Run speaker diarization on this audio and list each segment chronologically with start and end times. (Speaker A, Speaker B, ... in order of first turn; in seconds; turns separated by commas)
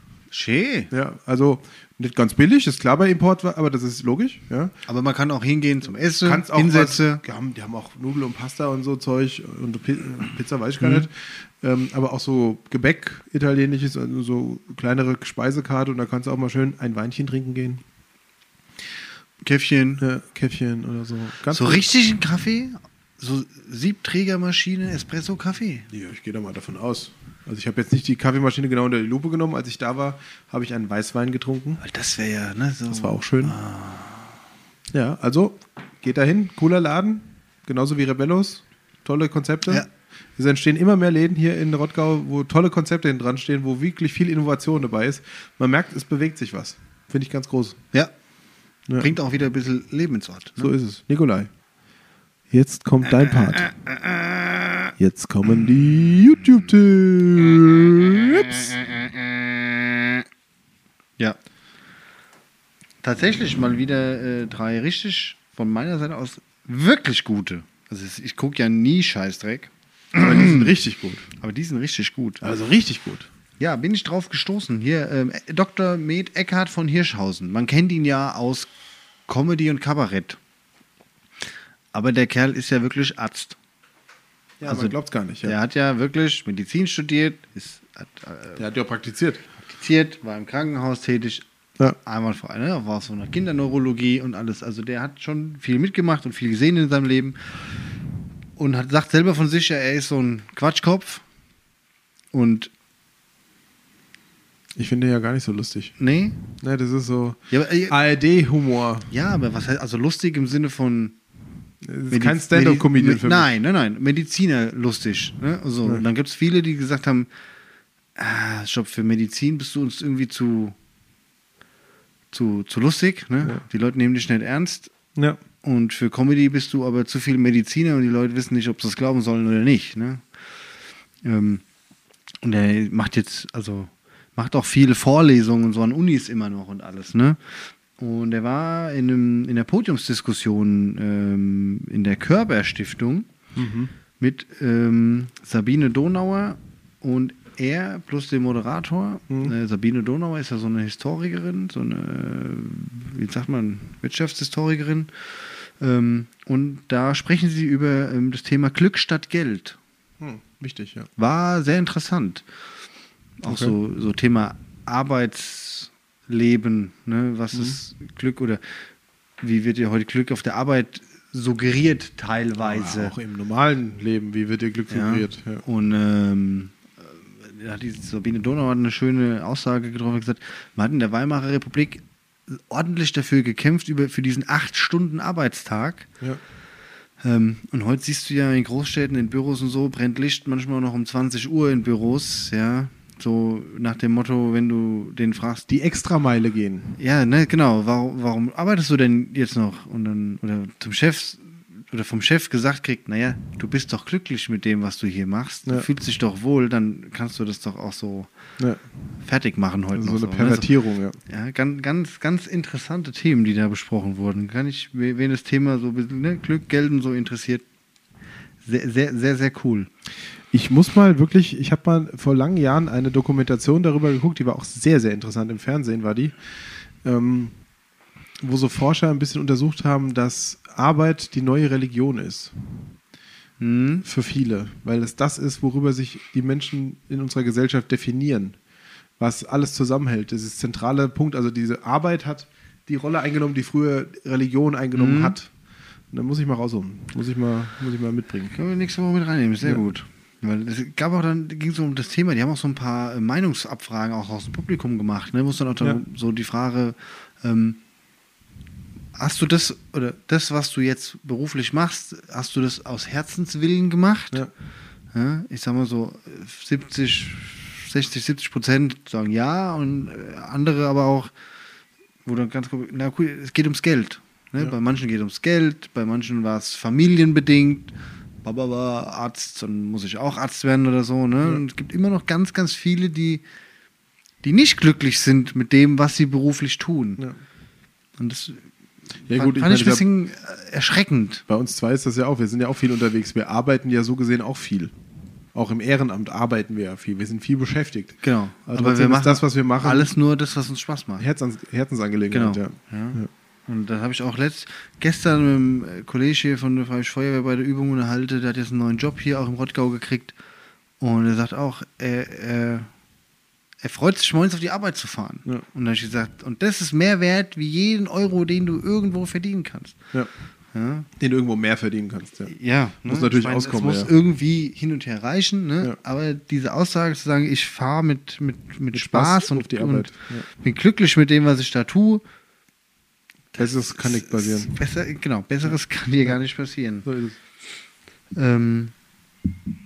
Speaker A: 0.3-0.9, Speaker B: 0.9-4.7, Speaker A: 4.8-7.2, Speaker B: 6.2-17.8, Speaker A: 10.8-11.1, Speaker A: 19.4-20.0, Speaker B: 20.0-21.9, Speaker A: 21.5-25.9, Speaker B: 25.9-31.8, Speaker A: 31.8-34.4, Speaker B: 32.9-33.5, Speaker B: 34.9-39.9, Speaker B: 40.4-47.8, Speaker B: 48.9-49.1, Speaker A: 49.0-50.8, Speaker B: 50.6-51.5, Speaker B: 52.5-53.7, Speaker A: 53.2-54.9, Speaker B: 55.0-58.8, Speaker A: 58.4-60.2, Speaker A: 63.0-70.7, Speaker B: 70.1-71.2, Speaker A: 71.4-72.4, Speaker B: 72.4-73.3, Speaker A: 73.6-78.7, Speaker A: 79.3-80.4, Speaker A: 81.9-83.6, Speaker B: 84.6-85.6, Speaker A: 84.7-88.6, Speaker B: 88.6-89.4, Speaker A: 89.7-97.4, Speaker A: 98.5-101.2, Speaker A: 102.3-102.7, Speaker B: 104.8-105.9, Speaker A: 106.0-106.4, Speaker B: 106.5-109.1, Speaker A: 107.5-108.0, Speaker A: 109.1-111.2, Speaker B: 111.8-113.5, Speaker A: 112.1-117.3, Speaker A: 118.2-120.7, Speaker A: 122.3-124.9, Speaker A: 125.6-130.2, Speaker A: 131.2-131.6, Speaker A: 132.4-143.3, Speaker B: 143.6-143.9, Speaker A: 144.2-155.1, Speaker A: 155.8-159.8, Speaker B: 160.2-161.1, Speaker A: 161.2-162.4, Speaker A: 163.4-168.6, Speaker B: 163.4-163.7, Speaker A: 169.4-173.1, Speaker B: 172.6-175.6, Speaker A: 174.9-186.1, Speaker A: 187.2-195.7, Speaker B: 195.7-196.9, Speaker A: 197.0-208.3, Speaker B: 208.6-208.8, Speaker A: 209.2-210.7, Speaker B: 209.9-211.2, Speaker A: 211.3-217.6, Speaker A: 218.6-219.9, Speaker B: 220.5-226.3, Speaker B: 227.0-227.5, Speaker B: 228.4-232.9, Speaker A: 233.6-234.0, Speaker B: 234.0-238.6, Speaker B: 239.2-245.5, Speaker A: 244.9-245.4, Speaker B: 246.1-248.6, Speaker A: 248.5-257.8, Speaker A: 259.1-264.4, Speaker A: 265.1-271.3, Speaker A: 272.2-277.9, Speaker A: 278.4-283.4, Speaker A: 284.4-287.2, Speaker A: 288.2-288.6, Speaker B: 289.3-290.0, Speaker A: 289.3-291.4, Speaker B: 291.5-294.9, Speaker B: 295.5-300.1, Speaker A: 298.2-301.2, Speaker B: 301.2-303.3, Speaker A: 302.3-310.3, Speaker A: 311.0-312.9, Speaker A: 313.8-320.0, Speaker A: 320.7-321.1, Speaker B: 321.2-322.5, Speaker A: 322.5-332.2, Speaker B: 323.1-324.1, Speaker B: 328.9-330.5, Speaker A: 333.5-337.1, Speaker B: 333.6-334.7, Speaker B: 337.0-337.4, Speaker A: 338.3-338.9